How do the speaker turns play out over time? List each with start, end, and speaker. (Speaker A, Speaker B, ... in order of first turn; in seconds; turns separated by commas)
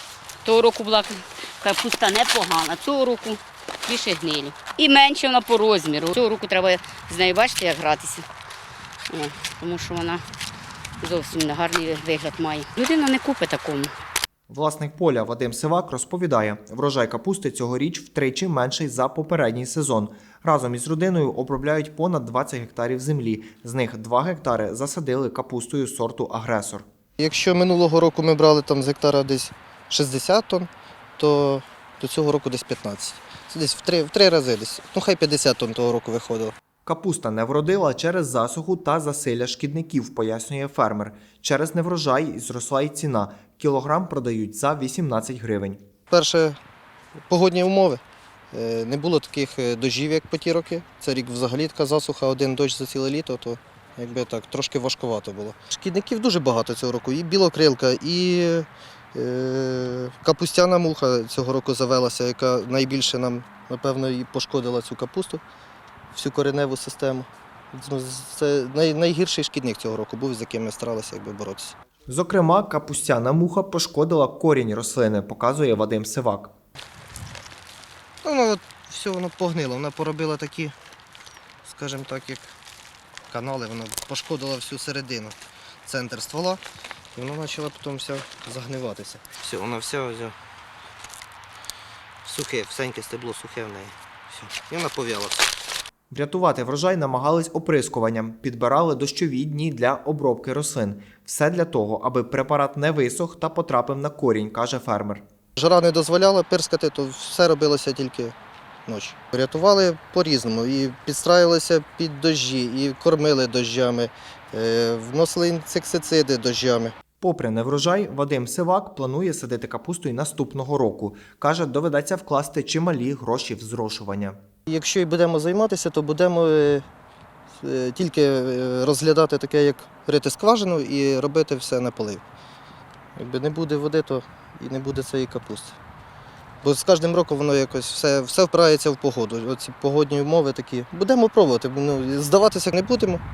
Speaker A: 0.4-8.2, Speaker A: 9.1-10.2, Speaker A: 11.0-13.9, Speaker B: 14.5-26.8, Speaker C: 27.2-36.5, Speaker B: 36.9-45.8, Speaker C: 46.1-46.6, Speaker C: 47.3-48.0, Speaker C: 48.5-65.4, Speaker C: 66.1-71.7, Speaker B: 72.1-76.5, Speaker C: 78.2-80.7, Speaker C: 81.6-82.5, Speaker C: 83.3-86.6, Speaker C: 87.1-90.3, Speaker C: 92.2-95.5, Speaker B: 96.1-105.2, Speaker C: 105.6-108.3, Speaker C: 108.9-116.9, Speaker B: 117.2-124.3, Speaker C: 124.7-126.8, Speaker C: 127.5-132.2, Speaker C: 133.2-135.8, Speaker C: 136.6-143.2